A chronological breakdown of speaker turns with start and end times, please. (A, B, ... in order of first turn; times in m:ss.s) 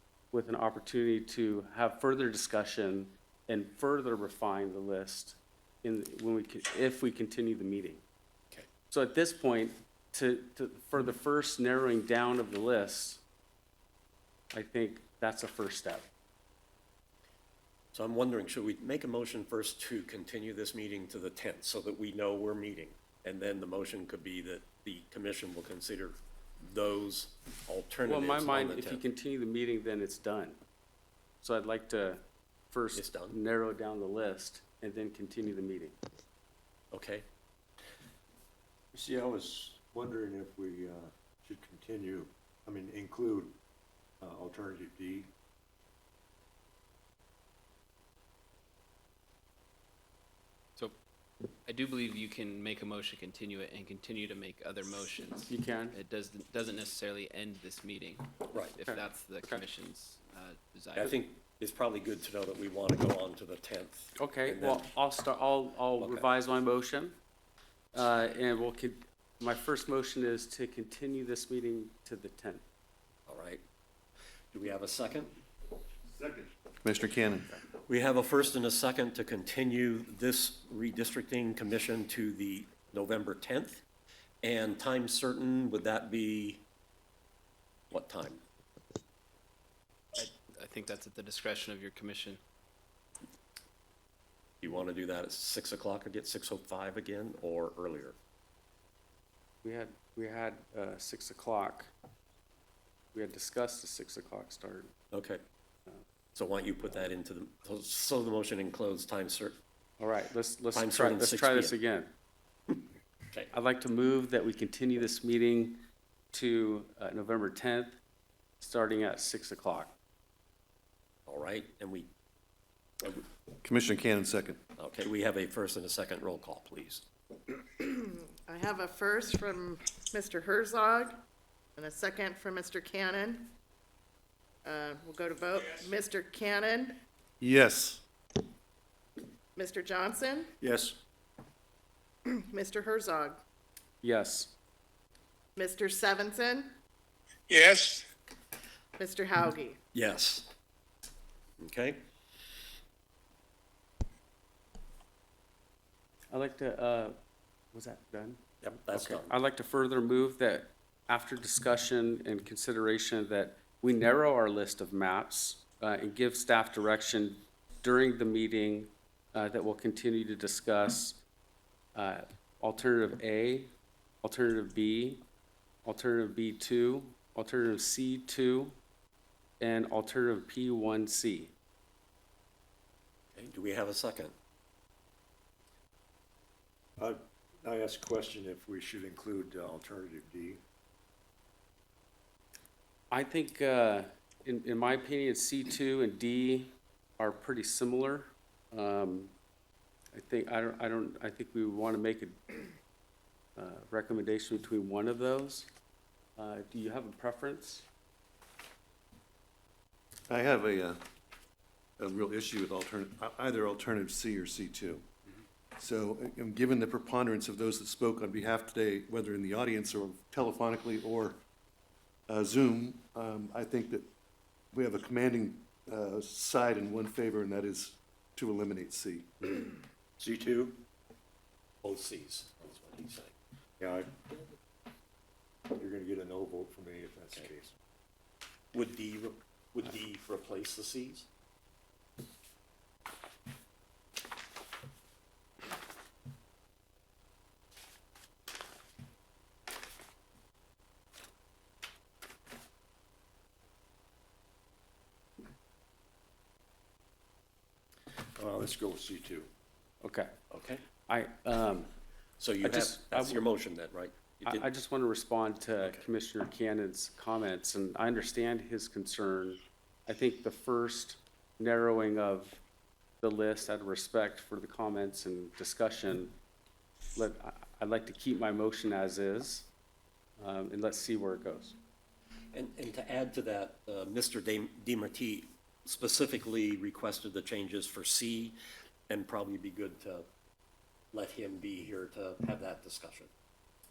0:00.3-0:08.0 A
0:08.9-0:13.2 A
0:14.5-0:16.1 A
0:17.9-0:29.0 B
0:28.0-0:30.6 A
0:31.4-0:36.0 A
0:32.9-0:33.4 B
0:36.9-0:37.2 B
0:38.9-0:43.6 C
0:44.2-0:45.3 C
0:51.6-1:01.2 D
0:55.5-0:56.0 A
0:58.5-0:58.8 B
0:58.9-0:59.6 A
1:01.0-1:04.8 B
1:04.2-1:07.2 A
1:06.0-1:06.3 B
1:07.9-1:12.6 A
1:13.3-1:13.6 B
1:14.5-1:15.3 B
1:16.2-1:17.5 E
1:17.9-1:23.8 B
1:24.4-1:26.6 B
1:27.9-1:28.4 B
1:30.1-1:32.4 D
1:34.6-1:38.2 B
1:39.6-1:41.9 A
1:43.1-1:44.9 A
1:45.1-1:45.4 B
1:46.4-1:49.6 B
1:50.0-1:52.1 A
1:50.7-1:51.7 B
1:53.5-1:58.0 A
1:58.6-1:59.9 A
2:01.3-2:02.1 B
2:03.6-2:04.6 E
2:04.8-2:07.0 B
2:07.7-2:11.2 F
2:11.8-2:13.5 F
2:14.6-2:17.0 F
2:17.4-2:18.0 E
2:19.6-2:20.5 F
2:20.6-2:21.0 C
2:22.3-2:23.4 F
2:24.0-2:24.5 A
2:25.6-2:26.7 F
2:29.0-2:29.8 F
2:29.9-2:30.5 B
2:31.6-2:32.0 B
2:36.3-2:37.2 A
2:37.7-2:51.2 A
2:38.6-2:39.3 B
2:51.9-2:53.7 A
2:54.2-2:55.2 A
2:55.8-2:58.7 A
2:59.6-3:01.5 A
3:03.3-3:04.3 B
3:07.0-3:10.6 C
3:13.1-3:19.3 A
3:20.1-3:22.5 A
3:23.6-3:25.7 A
3:26.4-3:27.8 A
3:30.3-3:31.0 E
3:32.0-3:35.0 E
3:35.8-3:41.4 E
3:42.3-3:44.1 E
3:44.7-3:49.6 E
3:50.2-3:50.8 B
3:51.8-3:53.3 B
3:53.8-3:54.1 C
3:55.7-3:57.7 C
3:58.7-4:01.3 B
4:18.3-4:19.5 C
4:20.0-4:20.3 A
4:20.5-4:20.8 B
4:21.0-4:21.9 A
4:22.4-4:24.6 B
4:22.6-4:23.4 A
4:24.4-4:32.6 A
4:33.2-4:36.3 A
4:37.2-4:39.7 A
4:40.4-4:41.8 A
4:42.5-4:48.6 B
4:49.1-4:50.3 B
4:51.1-4:53.3 B